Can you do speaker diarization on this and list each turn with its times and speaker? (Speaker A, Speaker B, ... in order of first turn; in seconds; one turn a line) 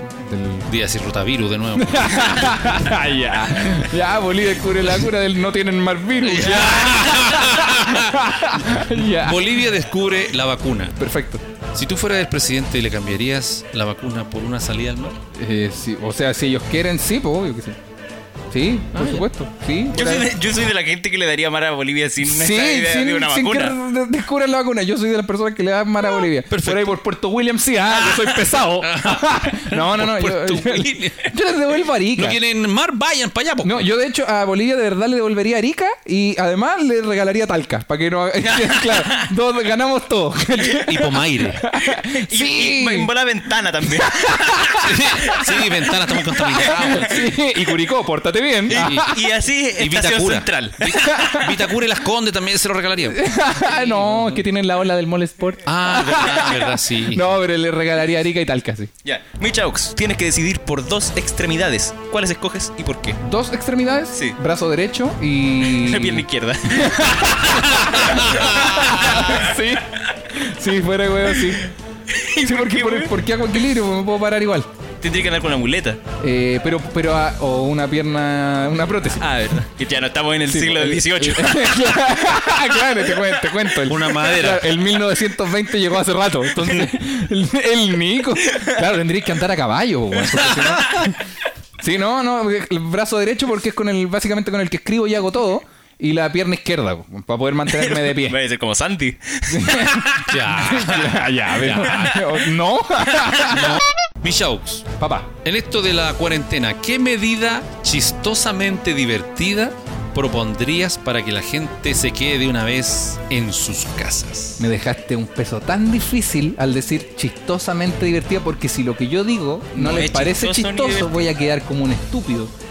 Speaker A: 0.2-0.7
Speaker B: 0.6-2.6
Speaker A: 1.8-9.5
Speaker B: 6.2-11.0
Speaker A: 11.0-11.4
Speaker B: 11.7-15.2
Speaker A: 15.3-17.8
Speaker A: 18.5-20.3
Speaker B: 18.9-19.3
Speaker C: 19.9-23.8
Speaker A: 22.2-32.4
Speaker B: 26.5-27.0
Speaker B: 28.1-31.3
Speaker B: 32.1-33.9
Speaker A: 33.6-43.1
Speaker C: 38.4-39.3
Speaker B: 40.7-41.6
Speaker C: 41.9-45.5
Speaker A: 44.0-45.0
Speaker B: 44.8-47.2
Speaker A: 46.5-49.2
Speaker C: 46.6-47.1
Speaker C: 48.7-51.4
Speaker B: 48.7-49.2
Speaker B: 49.7-53.3
Speaker A: 51.0-51.5
Speaker A: 53.1-58.9
Speaker B: 54.0-54.4
Speaker B: 55.6-57.3
Speaker C: 59.0-63.2
Speaker A: 63.2-71.7
Speaker C: 65.6-69.5
Speaker C: 71.6-73.1
Speaker A: 72.4-74.7
Speaker C: 75.0-76.0
Speaker A: 76.2-79.3
Speaker C: 79.2-82.0
Speaker A: 80.5-91.2
Speaker B: 83.8-84.7
Speaker C: 88.5-88.8
Speaker B: 90.5-90.8
Speaker A: 91.8-98.4
Speaker C: 97.7-100.4
Speaker A: 99.5-103.8
Speaker B: 100.3-102.5
Speaker C: 103.2-103.5
Speaker B: 103.5-104.9
Speaker A: 105.0-105.3
Speaker B: 105.4-114.7
Speaker A: 114.6-122.5
Speaker C: 119.7-121.2